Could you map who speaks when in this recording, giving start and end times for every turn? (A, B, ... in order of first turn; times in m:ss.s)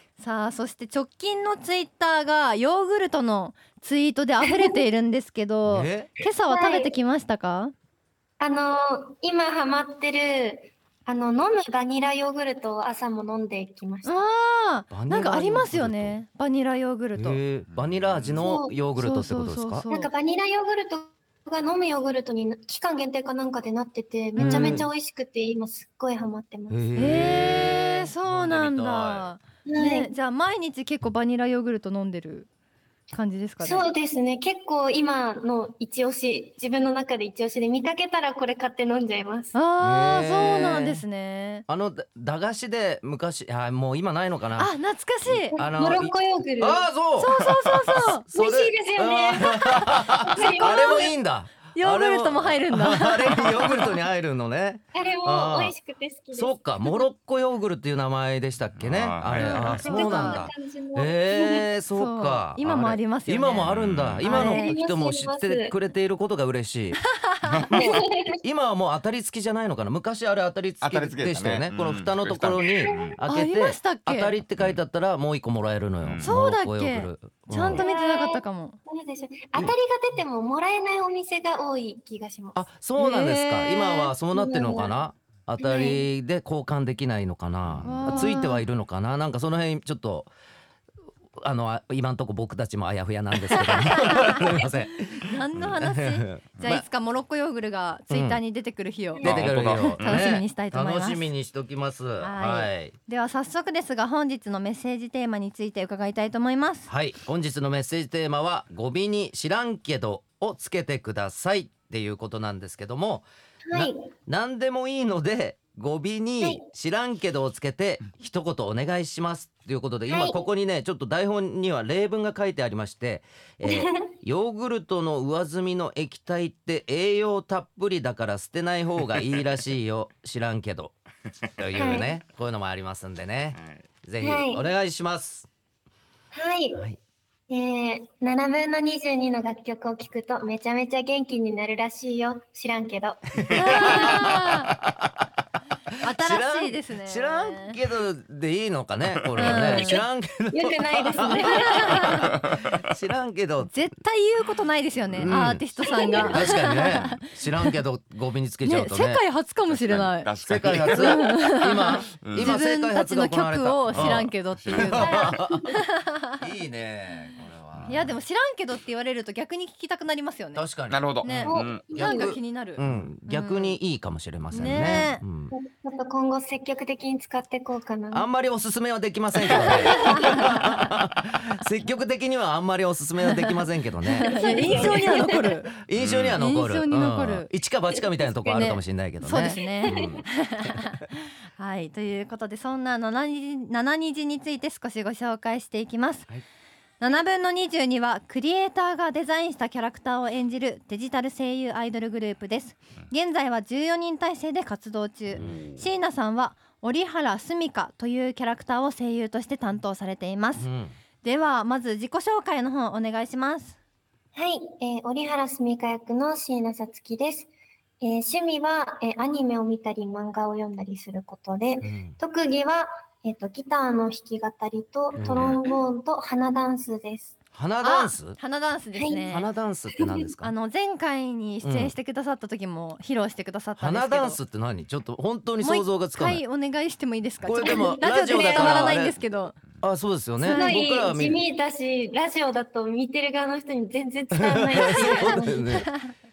0:00.2-0:07.7 A
0:05.7-0:06.1 B
0:06.5-0:07.0 C
0:08.4-0:14.2 C
0:14.0-0:17.4 A
0:14.9-0:16.2 B
0:17.2-0:19.8 B
0:17.7-0:18.5 D
0:18.4-0:18.8 C
0:19.0-0:20.1 A
0:19.9-0:27.3 C
0:24.4-0:24.8 A
0:24.4-0:24.9 B
0:26.7-0:29.3 B
0:27.0-0:32.5 A
0:29.7-0:30.1 C
0:33.1-0:33.8 A
0:33.6-0:39.6 C
0:39.5-0:41.6 A
0:39.8-0:41.0 B
0:41.7-0:44.8 B
0:44.6-0:45.6 A
0:45.3-0:55.7 B
0:45.5-0:46.9 C
0:47.2-0:48.2 A
0:48.3-0:51.1 C
0:49.6-0:49.9 A
0:50.4-0:51.1 A
0:51.7-0:53.9 A
0:54.9-0:56.7 C
0:56.4-1:07.0 B
0:58.8-1:00.5 D
0:59.4-1:01.7 C
0:59.4-1:00.4 A
1:02.0-1:03.7 A
1:03.7-1:04.3 D
1:04.2-1:04.7 A
1:04.3-1:05.7 C
1:07.5-1:07.8 D
1:07.7-1:17.8 B
1:07.7-1:08.4 C
1:10.8-1:13.2 D
1:12.8-1:13.1 C
1:13.2-1:14.4 A
1:16.0-1:16.3 D
1:16.2-1:18.8 A
1:17.7-1:22.6 C
1:22.5-1:30.3 B
1:23.0-1:24.1 A
1:24.3-1:24.9 C
1:25.6-1:26.0 C
1:27.6-1:28.1 D
1:27.8-1:28.6 A
1:31.4-1:36.8 B
1:33.7-1:41.3 A
1:38.1-1:38.4 B
1:39.2-1:40.3 D
1:39.2-1:42.9 B
1:42.2-1:46.9 A
1:46.9-2:10.9 B
1:53.7-1:54.1 C
2:00.1-2:00.4 C
2:03.7-2:04.0 C
2:11.6-2:15.5 B
2:11.8-2:12.1 C
2:13.6-2:13.8 D
2:14.2-2:14.6 C
2:16.3-2:16.8 C
2:17.5-2:24.2 C
2:23.5-2:25.1 B
2:23.5-2:24.7 A
2:26.0-2:27.8 A
2:26.1-2:33.8 B
2:29.4-2:30.0 A
2:29.4-2:29.8 D
2:30.5-2:32.0 C
2:31.4-2:32.2 A
2:32.3-2:32.8 D
2:33.6-2:37.7 A
2:35.1-2:35.7 B
2:36.1-2:36.5 C
2:36.3-2:39.2 B
2:38.6-2:40.3 A
2:39.7-2:41.4 D
2:40.5-2:45.8 B
2:40.8-2:46.2 A
2:42.1-2:42.6 D
2:43.9-2:45.4 D
2:46.4-2:48.2 B
2:47.9-2:50.7 A
2:50.6-2:55.5 B
2:50.9-2:51.8 D
2:51.2-2:53.8 A
2:51.5-2:52.4 C
2:54.5-2:55.2 A
2:55.5-2:58.3 C
2:58.1-3:10.2 B
2:59.6-3:00.6 A
3:04.2-3:05.4 C
3:04.3-3:05.7 A
3:06.0-3:06.4 D
3:06.4-3:07.5 A
3:08.5-3:16.3 A
3:09.5-3:09.9 C
3:09.9-3:10.2 D
3:17.0-3:30.7 A
3:30.6-3:30.9 B
3:31.2-3:33.8 A
3:34.4-3:37.5 C
3:38.0-3:47.4 C
3:41.8-3:42.2 B
3:45.2-3:45.6 B
3:45.3-3:45.5 D
3:47.5-3:48.4 B
3:47.8-3:49.5 A
3:49.0-3:49.3 C
3:49.3-3:50.5 B
3:50.4-3:54.4 A
3:51.6-3:51.9 B
3:53.8-3:56.4 B
3:55.6-3:59.6 A
3:57.4-3:59.2 B
3:57.6-3:58.9 C
3:59.8-4:01.4 B
4:00.4-4:00.8 A
4:00.4-4:05.6 C
4:04.4-4:05.9 B
4:04.8-4:06.1 A